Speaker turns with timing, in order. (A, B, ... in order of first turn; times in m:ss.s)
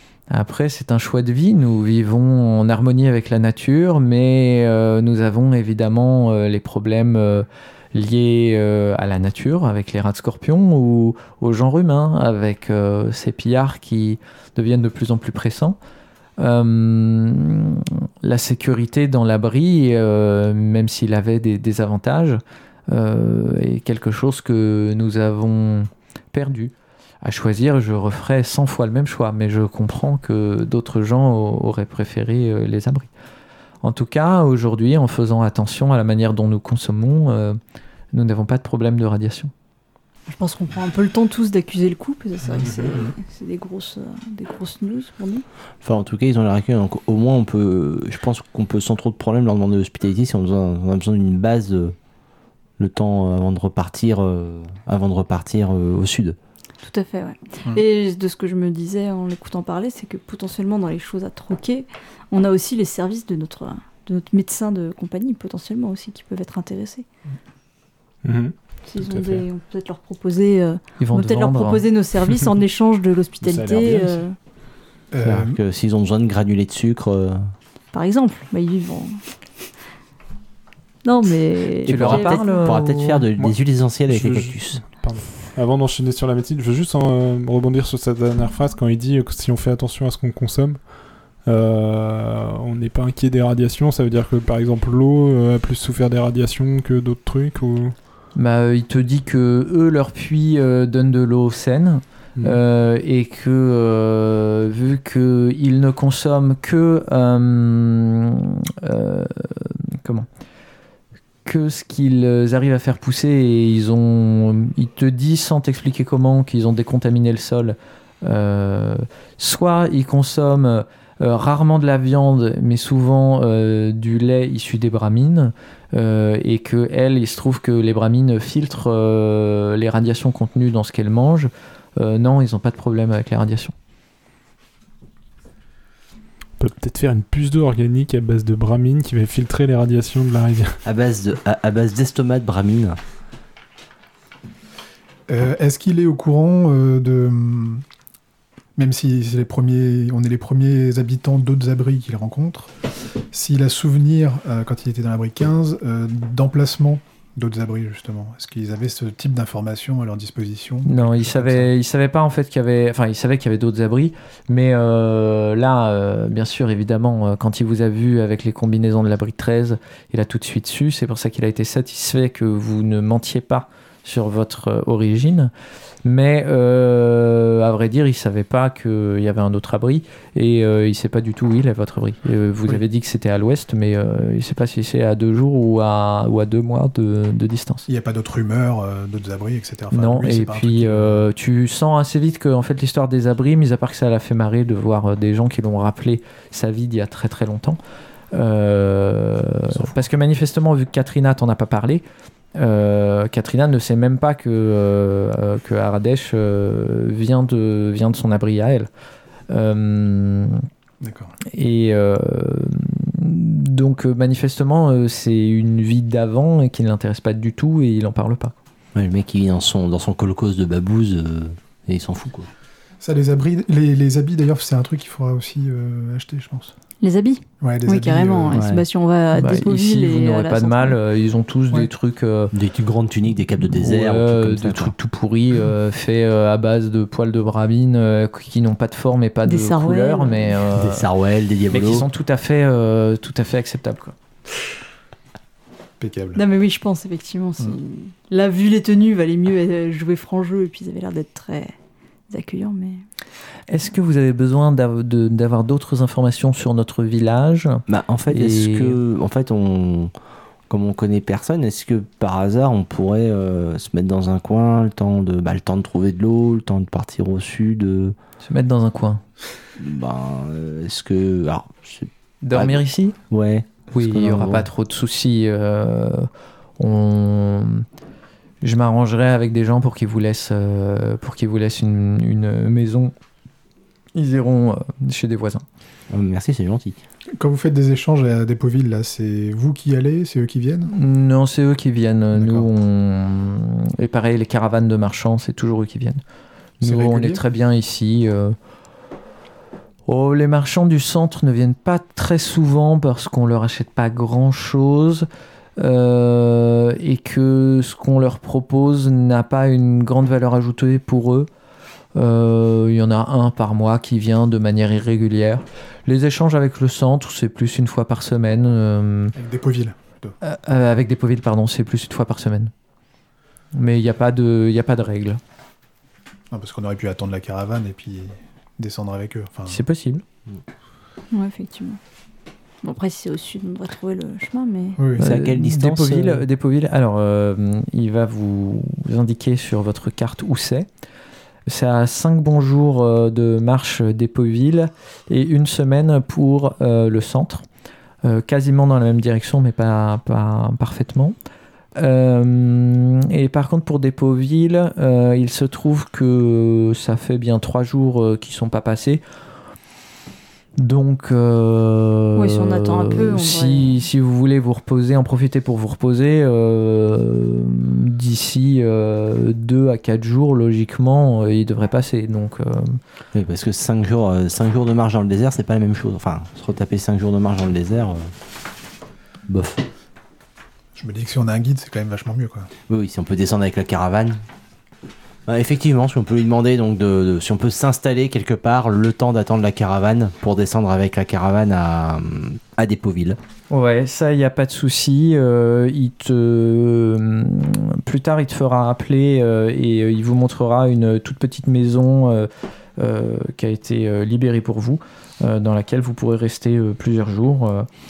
0:00.3-0:15.8 A
0:16.4-0:33.1 A
0:33.8-0:37.6 A
0:38.1-0:39.5 A
0:40.3-0:45.4 B
0:45.8-0:52.0 C
0:52.8-0:56.4 C
0:56.8-1:07.1 B
1:08.2-1:09.4 D
1:08.9-1:14.4 B
1:11.0-1:11.8 A
1:13.4-1:14.2 D
1:15.1-1:15.6 E
1:15.2-1:17.5 C
1:17.9-1:19.2 B
1:21.0-1:22.7 B
1:21.9-1:23.2 A
1:21.9-1:24.8 C
1:24.1-1:38.0 D
1:38.4-1:50.3 A
1:51.4-2:13.7 A
2:16.6-2:20.8 D
2:20.8-2:23.0 C
2:25.3-2:27.8 E
2:28.8-2:41.7 E
2:40.9-2:55.5 A
2:56.0-3:07.9 A
3:07.9-3:11.3 E
3:09.9-3:17.8 A
3:18.3-3:22.0 A
3:19.7-3:20.0 E
3:22.6-3:28.9 A
3:29.5-3:30.7 A
3:31.0-3:31.3 E
3:31.5-3:38.5 A
3:39.0-3:42.5 C
3:43.0-3:46.7 E
3:47.0-3:51.0 B
3:47.6-3:48.6 E
3:48.5-3:48.8 C
3:49.4-3:52.5 A
3:52.5-3:54.9 C
3:53.7-4:01.1 A
3:59.4-4:00.5 B
4:00.7-4:02.1 C
4:01.7-4:04.2 A
4:06.0-4:06.4 E
4:06.4-4:11.7 B
4:12.3-4:13.0 B
4:13.7-4:19.0 A
4:17.9-4:20.1 C
4:20.7-4:28.2 C
4:28.4-4:29.2 A
4:29.8-4:34.7 C
4:32.4-4:33.2 A
4:33.9-4:37.9 A
4:38.6-4:43.1 A
4:44.2-4:45.6 A
4:46.1-4:47.0 C
4:47.4-4:50.9 E
4:50.9-4:56.2 A
4:52.3-4:52.7 E
4:56.8-4:57.4 E
4:56.8-4:58.6 A
5:00.1-5:11.5 A
5:12.2-5:19.4 A
5:19.4-5:20.4 E
5:20.4-5:22.7 A
5:23.8-5:25.4 A
5:26.5-5:29.8 E
5:29.7-5:30.2 A
5:31.3-5:32.0 B
5:32.8-5:35.0 B
5:35.0-5:35.3 E
5:35.2-5:40.9 A
5:35.2-5:36.4 C
5:41.7-5:47.6 A
5:48.2-5:51.4 A
5:52.0-5:59.2 A
6:00.8-6:13.0 A
6:02.4-6:04.1 B
6:13.3-6:18.3 C
6:19.5-6:19.8 C
6:21.0-6:22.7 E
6:22.9-6:24.4 C
6:25.5-6:33.4 C
6:33.7-6:47.9 A